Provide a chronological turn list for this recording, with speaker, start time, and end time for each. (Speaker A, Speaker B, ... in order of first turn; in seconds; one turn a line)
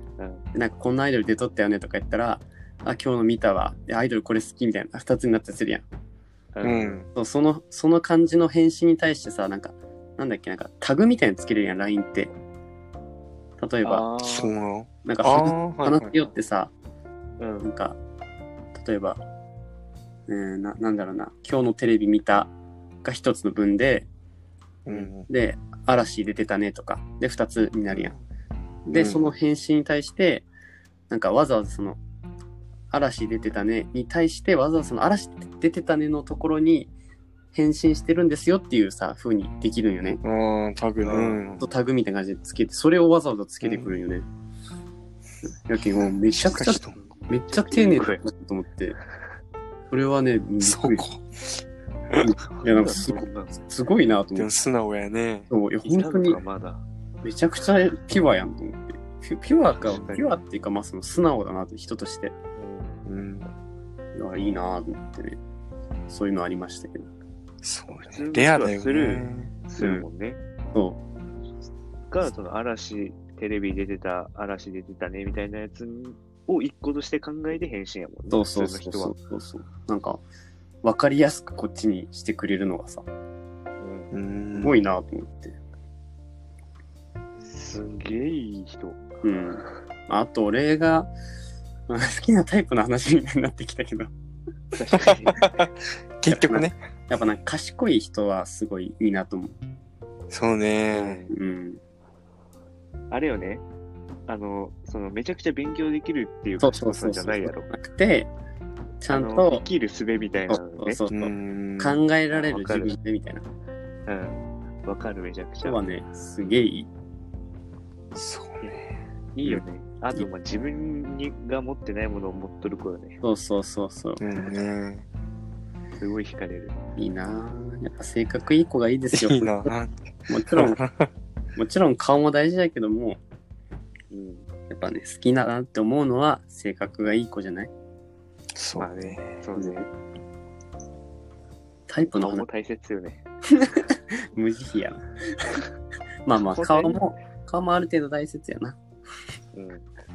Speaker A: 0.2-0.4
Speaker B: 0.5-5.8
Speaker A: 6.5-7.0
Speaker C: 6.6-7.1
Speaker B: 7.2-12.3
Speaker B: 13.6-14.1
Speaker A: 13.8-14.5
Speaker C: 14.2-16.1
Speaker B: 15.1-16.7
Speaker A: 17.4-17.7
Speaker B: 17.6-18.0
Speaker B: 18.7-19.2
Speaker B: 20.3-22.5
Speaker B: 23.0-24.1
Speaker C: 24.9-25.3
Speaker B: 25.3-28.1
Speaker C: 27.9-28.2
Speaker B: 28.9-30.5
Speaker C: 28.9-29.3
Speaker B: 31.1-32.0
Speaker B: 32.9-36.9
Speaker B: 37.5-40.2
Speaker C: 40.2-41.7
Speaker A: 41.0-41.4
Speaker B: 41.6-44.3
Speaker C: 43.6-43.9
Speaker B: 45.7-49.0
Speaker C: 46.3-47.0
Speaker A: 47.2-48.2
Speaker B: 49.9-51.0
Speaker C: 50.6-52.3
Speaker B: 52.2-54.5
Speaker A: 52.5-53.6
Speaker C: 54.4-55.5
Speaker B: 55.5-56.4
Speaker A: 55.8-56.8
Speaker B: 57.2-62.4
Speaker A: 59.7-60.4
Speaker A: 62.6-63.0
Speaker C: 63.1-63.5
Speaker B: 64.1-65.4
Speaker B: 66.1-67.1
Speaker C: 67.6-69.5
Speaker A: 68.0-70.4
Speaker B: 69.8-70.0
Speaker B: 70.7-71.0
Speaker A: 72.1-79.1
Speaker B: 78.3-80.2
Speaker B: 80.8-83.1
Speaker A: 83.8-84.1
Speaker C: 84.1-84.8
Speaker B: 84.6-85.6
Speaker A: 87.4-89.0
Speaker B: 89.2-91.1
Speaker B: 91.9-94.1
Speaker A: 94.7-95.6
Speaker C: 95.0-96.8
Speaker B: 96.3-99.6
Speaker C: 100.3-101.2
Speaker A: 100.9-101.3
Speaker B: 101.3-101.8
Speaker A: 103.1-103.6
Speaker A: 104.3-107.7
Speaker B: 106.6-108.3
Speaker B: 109.0-109.7
Speaker A: 109.1-111.0
Speaker B: 110.5-113.5
Speaker C: 111.1-112.0
Speaker A: 112.3-113.0
Speaker A: 114.1-115.8
Speaker B: 115.6-116.9
Speaker C: 118.2-119.6
Speaker A: 119.3-123.2
Speaker B: 123.2-124.2
Speaker C: 124.2-125.0
Speaker A: 126.0-126.8
Speaker B: 127.0-129.7
Speaker C: 129.1-129.9
Speaker B: 130.3-130.8
Speaker C: 130.5-131.1
Speaker B: 131.6-133.2
Speaker A: 134.1-134.5
Speaker B: 134.7-137.7
Speaker C: 138.6-139.4
Speaker A: 138.8-139.9
Speaker B: 139.6-139.8
Speaker B: 141.9-142.5
Speaker A: 142.1-143.2
Speaker B: 143.5-145.6
Speaker B: 146.3-148.8
Speaker A: 146.4-147.0
Speaker A: 149.5-149.8